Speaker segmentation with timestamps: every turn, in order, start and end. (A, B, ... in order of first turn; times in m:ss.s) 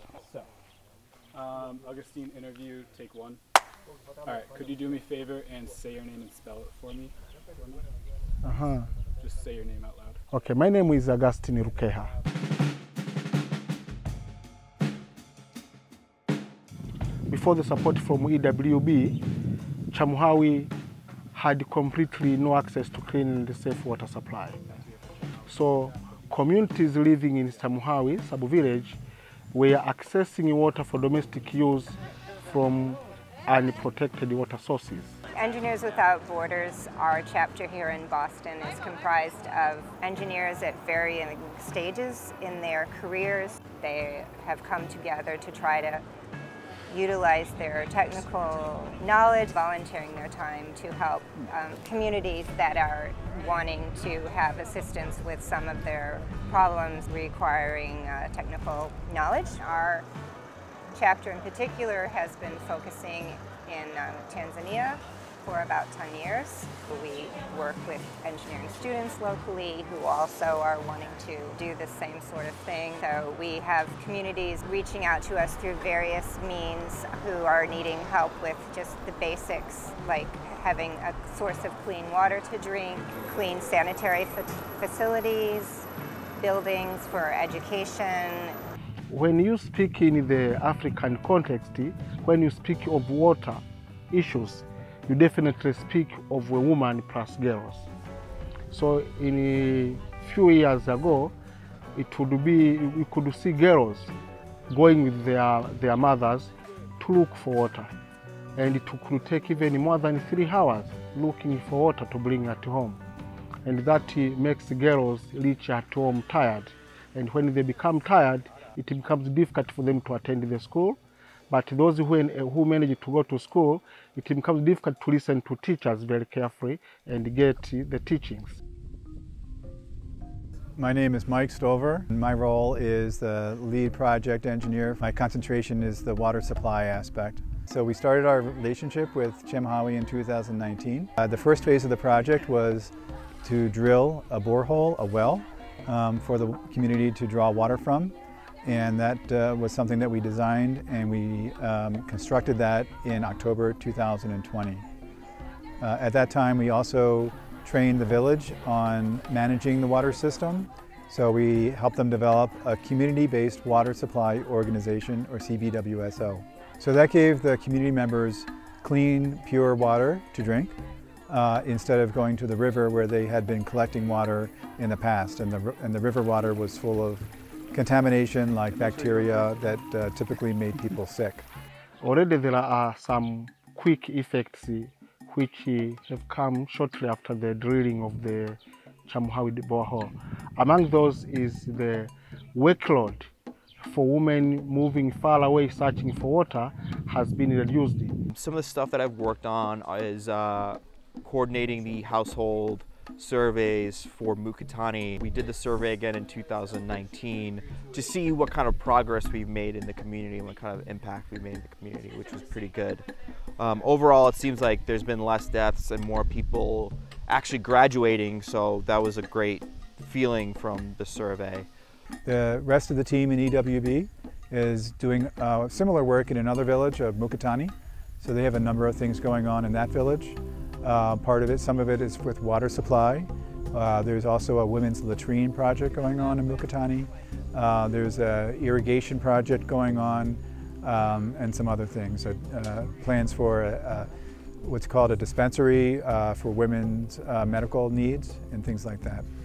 0:01.3-0:03.4 A
0:04.2-0:07.1 A
0:08.4-0:08.9 B
0:09.2-0:10.2 A
0:10.3-0:12.1 B
0:17.3-0:19.2 B
0:19.9-0:20.7 B
0:21.3-0:24.6 B
0:25.5-0:29.0 B
0:29.5-0:35.2 B
0:35.3-0:46.0 C
0:46.9-1:00.0 C
1:00.9-1:28.6 C
1:29.1-1:37.9 B
1:38.7-1:41.3 B
1:41.9-1:44.1 B
1:44.7-1:47.9 B
1:48.6-1:53.0 B
1:53.6-2:01.0 B
2:01.5-2:08.6 B
2:10.8-2:34.8 D
2:35.8-2:50.8 D
2:51.3-3:01.4 D
3:02.0-3:13.3 B
3:13.8-3:18.2 B
3:18.3-3:33.1 E
3:33.6-3:41.7 E
3:42.2-4:09.2 D